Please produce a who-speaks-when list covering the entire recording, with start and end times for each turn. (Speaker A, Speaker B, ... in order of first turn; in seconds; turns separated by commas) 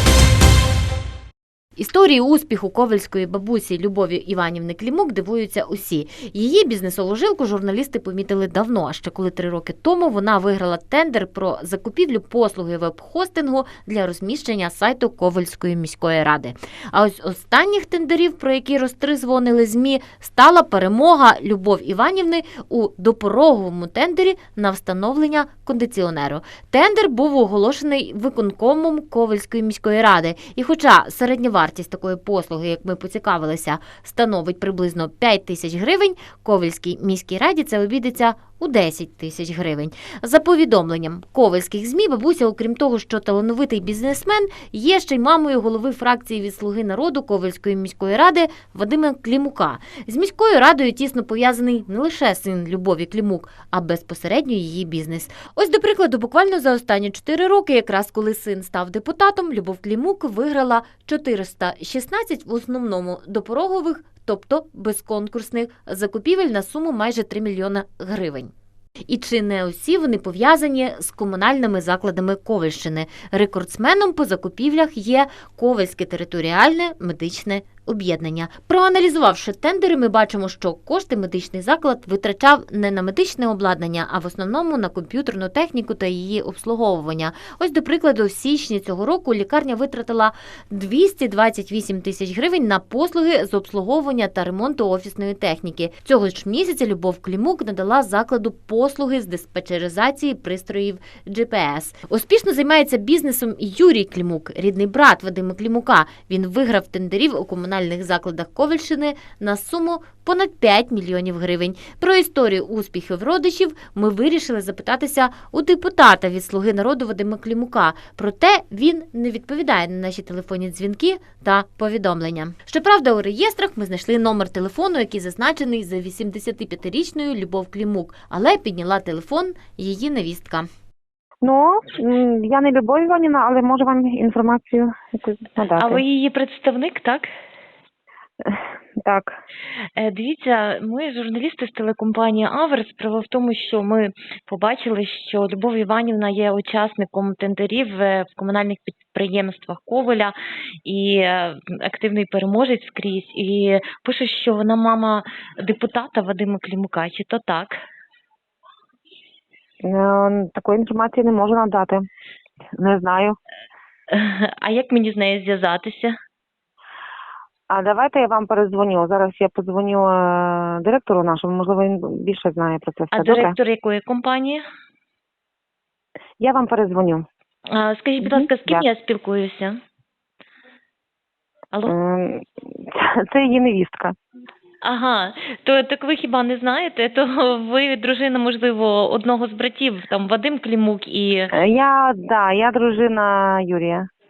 Speaker A: 1.8-68.5, Speaker A: 69.1-130.7, Speaker B: 131.4-136.0, Speaker C: 135.8-137.3, Speaker B: 138.4-139.4, Speaker C: 139.9-157.8, Speaker B: 159.8-162.1, Speaker B: 162.8-163.4, Speaker C: 164.1-166.2, Speaker B: 167.7-173.5, Speaker C: 173.1-174.6, Speaker B: 176.4-177.2, Speaker C: 177.7-179.8, Speaker B: 178.2-178.8, Speaker B: 181.8-184.2, Speaker C: 184.8-191.5, Speaker B: 191.5-194.1